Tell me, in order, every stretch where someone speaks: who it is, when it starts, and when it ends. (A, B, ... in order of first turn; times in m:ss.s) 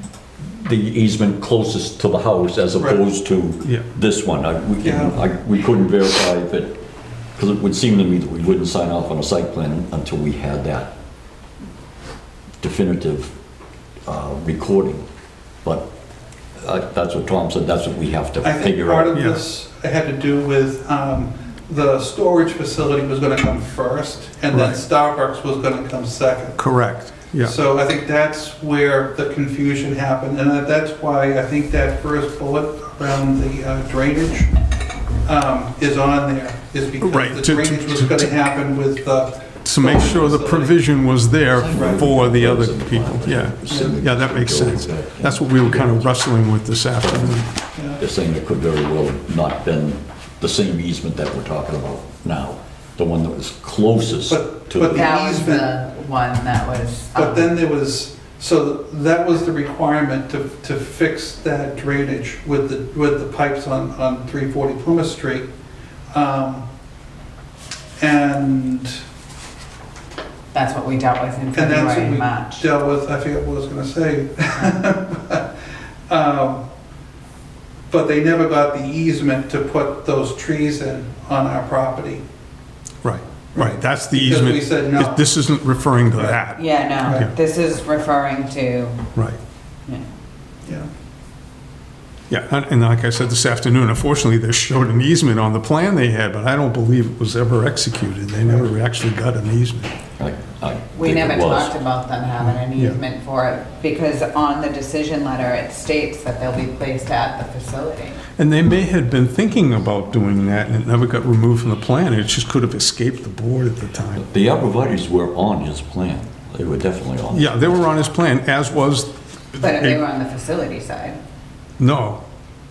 0:00.4-0:06.8 A
0:04.8-0:05.2 B
0:07.3-0:10.9 A
0:12.6-0:13.3 A
0:14.0-0:15.0 A
0:15.6-0:15.9 A
0:16.6-0:19.1 A
0:18.4-0:26.6 B
0:19.1-0:19.4 C
0:24.5-0:24.8 C
0:26.6-0:27.6 C
0:27.4-0:34.5 B
0:35.2-0:40.8 B
0:37.0-0:38.3 C
0:39.6-0:47.5 C
0:41.5-0:46.1 A
0:41.7-0:42.0 B
0:43.7-0:43.9 B
0:47.0-0:47.4 A
0:47.7-0:48.0 B
0:48.0-0:55.0 A
0:54.3-0:55.7 B
0:54.9-0:57.5 D
0:57.1-1:05.5 B
1:06.1-1:06.6 B
1:08.0-1:09.0 B
1:10.5-1:12.7 D
1:11.5-1:15.5 B
1:16.1-1:16.6 B
1:17.9-1:22.2 B
1:23.0-1:27.3 C
1:23.5-1:25.2 B
1:26.6-1:29.0 D
1:32.3-1:39.9 C
1:40.2-1:41.7 A
1:40.9-1:48.2 D
1:42.4-1:43.0 C
1:48.4-1:54.3 C
1:54.2-1:57.7 A
1:57.3-2:00.0 C
1:59.6-2:01.2 D
2:01.8-2:02.2 C